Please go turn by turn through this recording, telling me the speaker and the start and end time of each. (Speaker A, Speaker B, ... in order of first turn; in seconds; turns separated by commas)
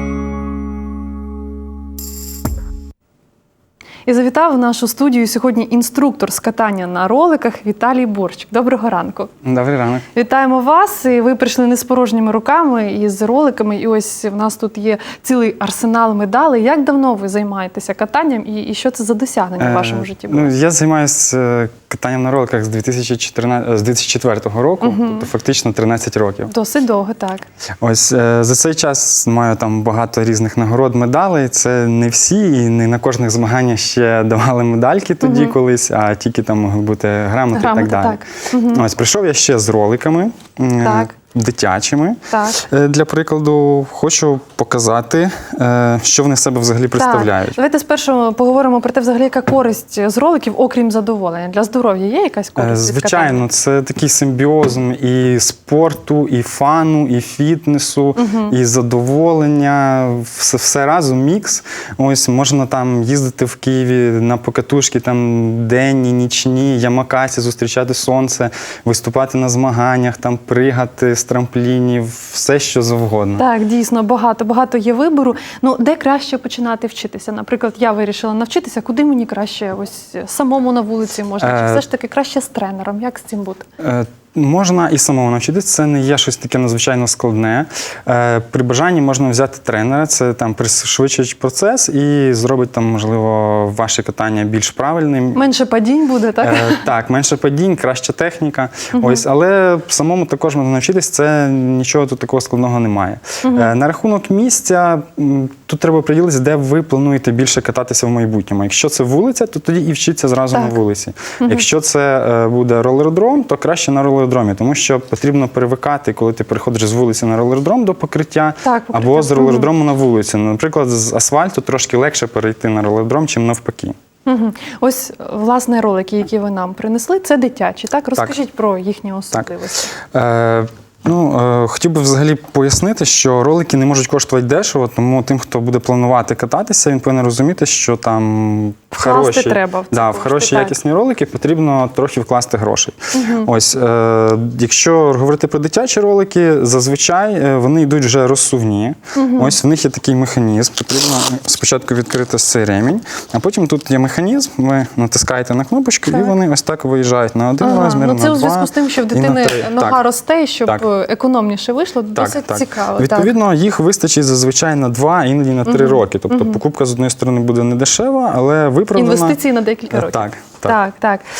Speaker A: 4.1-9.3, Speaker B: 9.4-10.1, Speaker A: 10.1-20.5, Speaker B: 19.6-26.5, Speaker A: 24.8-25.3, Speaker A: 26.5-27.4, Speaker B: 27.8-47.6, Speaker A: 35.2-35.5, Speaker A: 37.5-38.9, Speaker A: 40.8-41.1, Speaker A: 42.3-42.6, Speaker A: 47.0-53.4, Speaker B: 52.6-73.4, Speaker A: 58.2-58.5, Speaker A: 73.4-83.6, Speaker B: 81.4-81.8, Speaker B: 83.8-95.4, Speaker A: 95.3-96.8, Speaker B: 96.4-124.0, Speaker A: 98.9-99.2, Speaker A: 103.4-103.7, Speaker A: 110.5-110.8, Speaker A: 118.6-119.7, Speaker A: 124.3-129.8, Speaker B: 130.1-160.0, Speaker A: 139.0-140.8, Speaker A: 143.1-143.5, Speaker A: 149.2-149.6, Speaker A: 156.1-156.3, Speaker A: 157.6-163.3, Speaker B: 162.2-169.4, Speaker A: 165.7-166.6, Speaker A: 168.9-171.2, Speaker B: 169.9-170.8